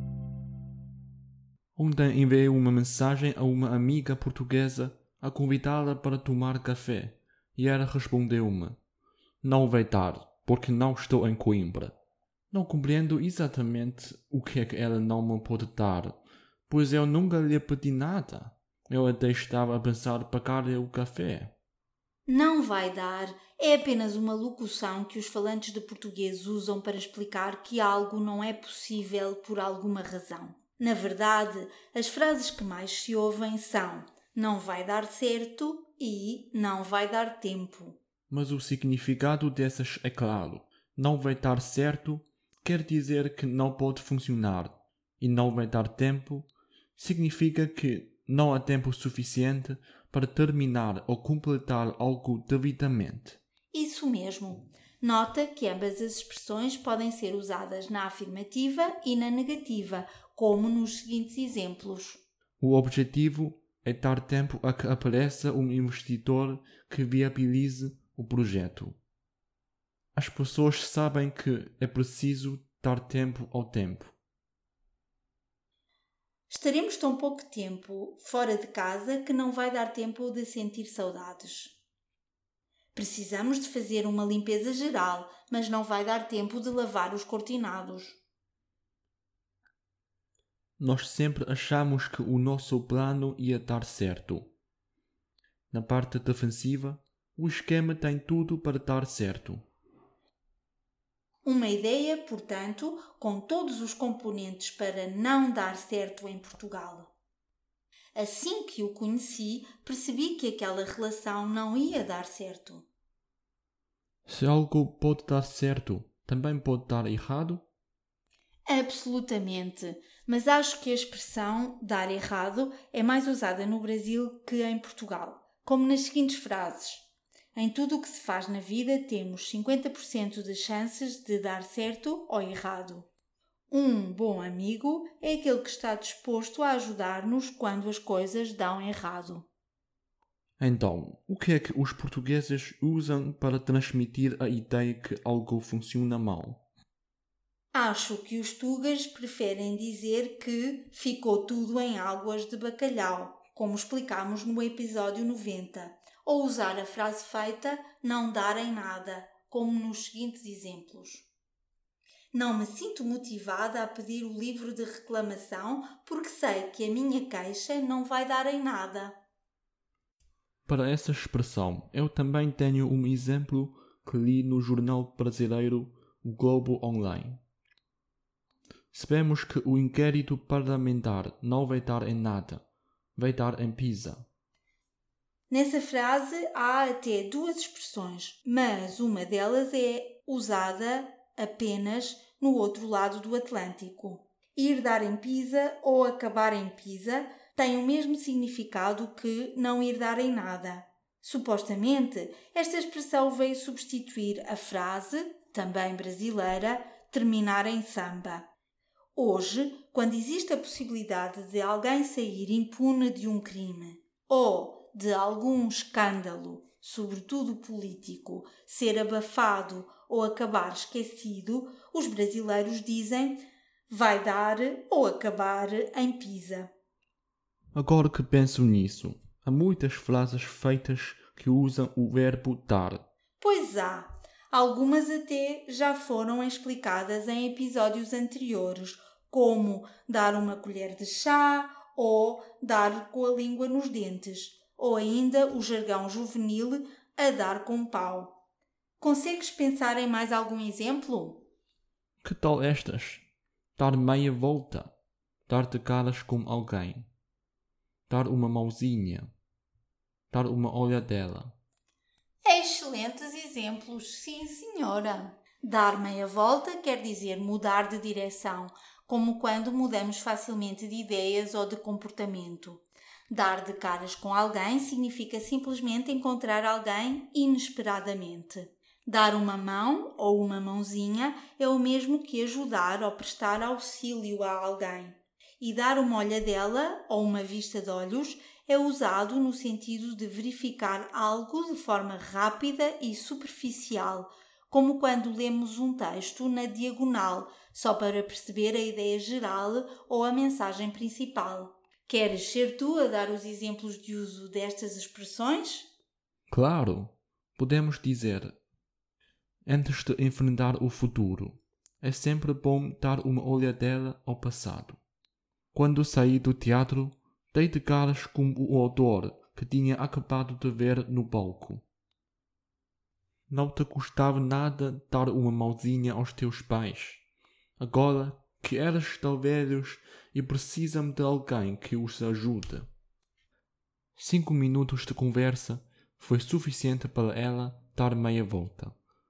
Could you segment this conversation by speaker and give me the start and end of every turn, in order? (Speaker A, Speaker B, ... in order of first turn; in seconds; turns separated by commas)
Speaker A: 1.7-8.8, Speaker A: 9.4-11.9, Speaker A: 12.5-16.1, Speaker A: 16.7-21.5, Speaker B: 22.3-38.0, Speaker A: 38.3-53.4, Speaker B: 53.7-62.2, Speaker A: 62.6-69.0, Speaker A: 70.1-74.1, Speaker B: 76.5-81.8, Speaker B: 82.9-88.2, Speaker A: 90.8-94.5, Speaker A: 95.7-99.7, Speaker B: 101.4-107.1, Speaker B: 108.1-112.8, Speaker A: 114.3-117.6, Speaker B: 118.7-133.1, Speaker B: 133.7-139.5, Speaker A: 140.6-146.6, Speaker B: 147.7-161.3, Speaker B: 162.3-169.1, Speaker A: 170.7-177.4, Speaker A: 178.9-182.6, Speaker A: 183.2-184.3, Speaker B: 185.5-208.5, Speaker B: 209.1-226.7, Speaker A: 227.7-233.0, Speaker B: 233.4-248.4, Speaker B: 249.0-251.5, Speaker A: 252.2-254.9, Speaker A: 255.5-257.1, Speaker A: 258.1-259.3, Speaker A: 260.3-261.5, Speaker B: 262.4-305.9, Speaker A: 306.5-308.6, Speaker A: 309.6-315.0, Speaker A: 315.7-321.8, Speaker A: 323.5-327.2, Speaker A: 327.8-332.9, Speaker A: 334.1-338.9